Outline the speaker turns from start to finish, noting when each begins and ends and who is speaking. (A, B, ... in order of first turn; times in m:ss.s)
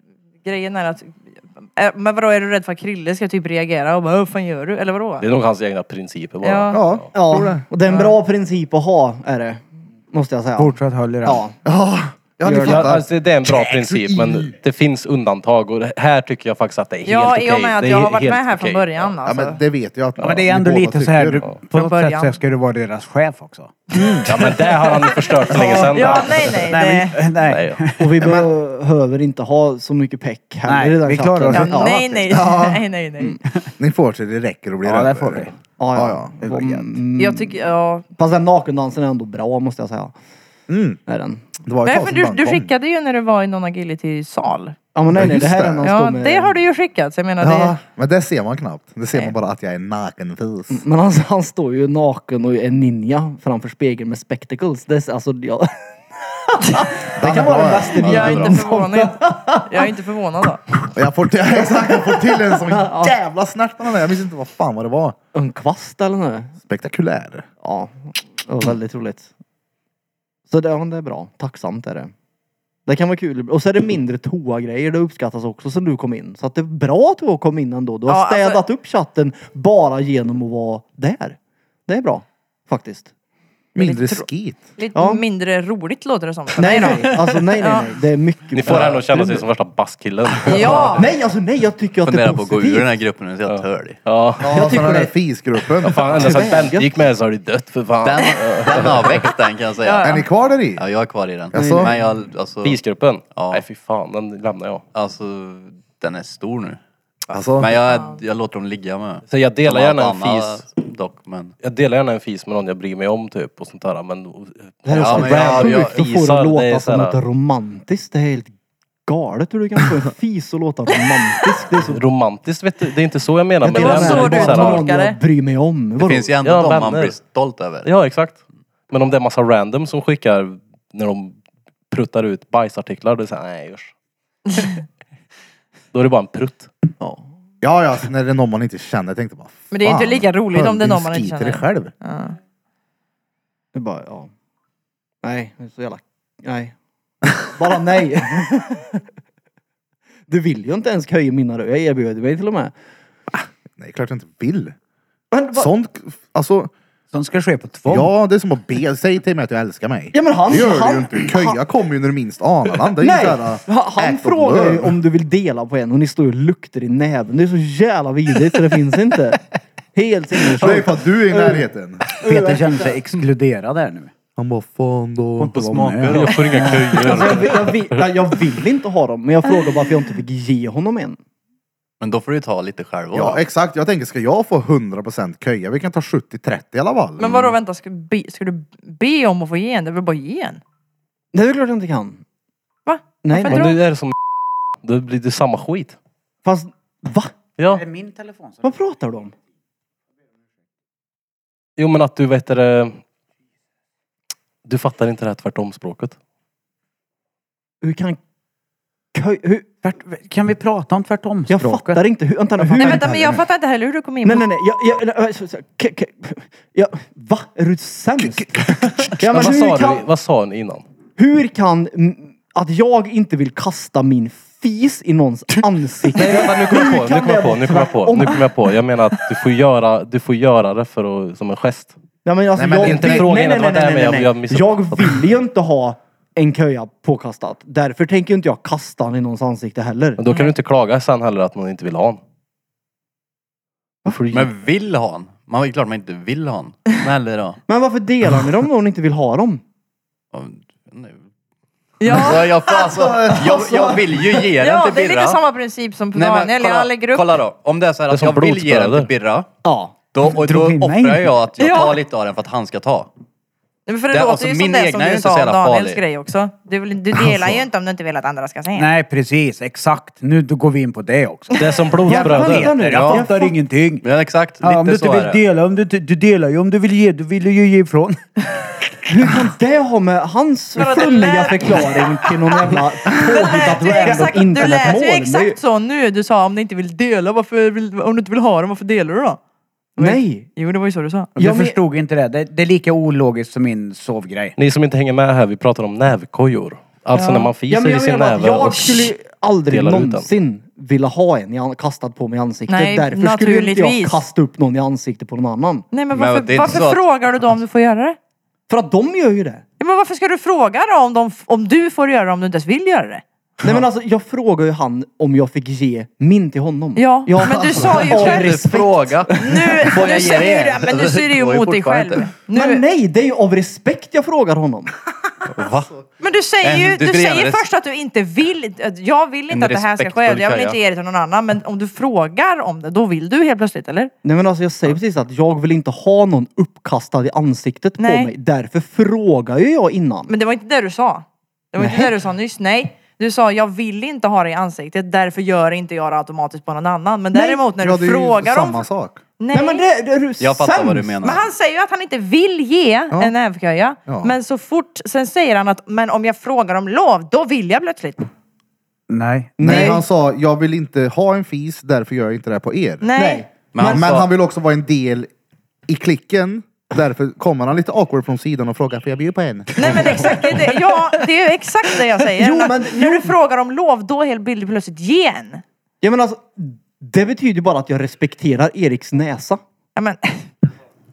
0:00.4-0:05.2 A
0:05.2-0:07.0 B
0:06.4-0:06.8 A
0:06.7-0:07.6 C
0:07.1-0:11.6 D
0:07.9-0:08.1 A
0:10.6-0:11.4 E
0:11.6-0:14.5 C
0:12.4-0:12.9 D
0:12.6-0:19.1 B
0:17.0-0:19.6 A
0:19.2-0:21.5 C
0:20.2-0:23.8 E
0:21.7-0:22.3 A
0:23.9-0:24.3 C
0:24.2-0:26.6 B
0:25.5-0:27.2 A
0:25.5-0:28.3 E
0:27.5-0:27.8 B
0:28.0-0:32.0 D
0:28.2-0:28.5 C
0:30.6-0:32.4 E
0:31.5-0:33.4 A
0:31.6-0:32.8 C
0:33.8-0:36.3 C
0:34.8-0:35.6 E
0:35.8-0:37.6 D
0:36.4-0:37.0 E
0:37.2-0:38.0 A
0:38.2-0:40.1 D
0:40.7-0:41.0 C
0:41.1-0:41.4 D
0:41.6-0:42.7 C
0:41.8-0:44.8 A
0:44.9-0:46.5 D
0:45.1-0:45.9 C
0:45.8-0:47.8 A
0:47.4-0:50.8 C
0:50.7-0:59.9 D
0:57.2-0:58.5 C
0:58.0-1:00.6 A
1:00.9-1:05.2 C
1:01.6-1:03.1 D
1:05.3-1:06.5 D
1:06.6-1:07.5 C
1:07.6-1:09.3 D
1:10.5-1:12.1 D
1:12.8-1:23.1 D
1:18.1-1:18.6 A
1:23.7-1:24.7 C
1:23.8-1:27.8 A
1:24.9-1:25.2 D
1:26.6-1:29.4 D
1:28.5-1:31.0 B
1:30.4-1:31.0 A
1:30.7-1:32.9 D
1:32.0-1:34.0 F
1:33.5-1:34.8 B
1:34.4-1:36.3 C
1:34.5-1:35.1 D
1:35.8-1:39.3 B
1:36.2-1:36.9 D
1:38.0-1:40.2 F
1:39.8-1:40.2 A
1:40.0-1:40.8 C
1:40.8-1:42.8 F
1:41.5-1:41.9 C
1:41.5-1:41.9 D
1:42.6-1:44.8 B
1:43.3-1:43.6 F
1:44.9-1:46.8 F
1:47.3-1:47.8 C
1:47.6-1:51.5 F
1:47.9-1:48.2 A
1:49.3-1:50.7 B
1:51.6-1:57.2 B
1:54.8-1:58.5 D
1:55.0-1:56.1 F
1:59.0-2:02.0 D
2:01.8-2:04.8 B
2:03.6-2:06.4 D
2:03.7-2:05.2 A
2:06.0-2:07.9 F
2:06.4-2:07.2 B
2:07.8-2:11.4 B
2:11.9-2:13.9 B
2:15.9-2:16.7 B
2:17.6-2:21.9 C
2:19.7-2:22.4 A
2:23.7-2:24.3 D
2:25.2-2:26.7 D
2:27.4-2:29.0 D
2:30.3-2:32.7 D
2:33.3-2:34.8 C
2:35.3-2:35.7 D
2:35.5-2:36.7 C
2:37.1-2:38.1 E
2:37.9-2:45.0 C
2:40.1-2:41.6 D
2:43.0-2:51.6 D
2:50.6-2:52.0 C
2:52.2-2:54.1 E
2:52.2-2:52.9 D
2:54.4-2:56.0 C
2:55.4-2:57.4 E
2:55.8-2:56.4 F
2:56.0-2:58.0 B
2:57.0-3:01.2 D
3:02.0-3:03.4 F
3:03.1-3:07.5 C
3:07.2-3:10.6 A
3:11.3-3:12.2 D
3:12.8-3:13.8 A
3:13.2-3:13.8 D
3:13.5-3:14.1 B
3:14.8-3:16.0 B
3:16.4-3:17.3 D
3:17.7-3:18.7 E
3:18.6-3:19.3 D
3:21.8-3:23.0 B
3:24.6-3:26.2 B
3:27.8-3:28.2 D
3:29.1-3:29.7 D
3:29.8-3:32.0 E
3:31.5-3:33.4 D
3:32.6-3:32.9 E
3:32.8-3:34.5 A
3:34.2-3:40.0 D
3:38.2-3:39.1 C
3:39.2-3:40.8 B
3:41.2-3:48.5 D
3:46.1-3:51.9 B
3:52.2-4:00.2 D
3:52.6-3:53.3 C
3:52.8-3:55.2 B
4:00.2-4:02.2 B
4:04.1-4:04.5 B
4:04.3-4:07.6 F
4:07.7-4:09.6 D
4:10.3-4:11.2 F
4:12.0-4:12.5 A
4:12.0-4:15.4 F
4:12.6-4:14.4 C
4:13.5-4:14.0 D
4:14.6-4:17.3 A
4:16.1-4:19.5 F
4:18.1-4:19.1 B
4:19.6-4:20.0 D
4:20.1-4:23.1 F
4:20.2-4:21.4 E
4:21.6-4:22.0 A
4:23.9-4:28.9 A
4:24.1-4:26.0 F
4:28.7-4:34.0 E
4:31.5-4:32.7 B
4:32.1-4:33.5 D
4:32.8-4:33.3 F
4:34.0-4:35.4 F
4:34.6-4:38.3 E
4:39.1-4:45.6 D
4:40.8-4:49.4 A
4:43.6-4:44.7 E
4:50.0-4:51.3 A
4:50.0-4:50.5 D
4:51.4-4:51.8 D
4:51.4-4:54.6 E
4:54.6-4:59.1 B
4:57.1-4:57.5 A
4:57.7-5:05.8 D
4:59.7-5:00.3 B
5:02.7-5:04.2 A
5:05.9-5:08.2 A
5:06.1-5:07.5 F
5:08.7-5:09.6 D
5:09.8-5:13.2 A
5:13.6-5:19.9 D
5:16.9-5:18.6 A
5:17.8-5:22.4 F
5:19.4-5:22.8 A
5:22.5-5:24.9 D
5:25.5-5:25.9 F
5:26.2-5:34.1 A
5:26.6-5:27.7 F
5:29.5-5:30.8 F
5:34.2-5:40.3 D
5:38.0-5:38.3 A
5:40.3-5:48.9 A
5:41.8-5:42.1 D
5:47.3-5:47.6 D
5:47.8-5:49.2 C
5:49.4-5:49.8 A
5:49.5-5:51.3 D
5:50.4-5:51.4 F
5:51.2-5:58.3 A
5:54.0-5:54.3 C
5:59.1-5:59.9 E
5:59.6-6:00.0 D
5:59.6-6:03.1 C
6:03.0-6:03.4 A
6:03.1-6:04.1 D
6:03.7-6:04.3 F
6:03.8-6:05.3 C
6:05.9-6:10.3 C
6:09.8-6:15.6 A
6:12.3-6:13.3 D
6:16.0-6:19.6 D
6:20.0-6:20.4 A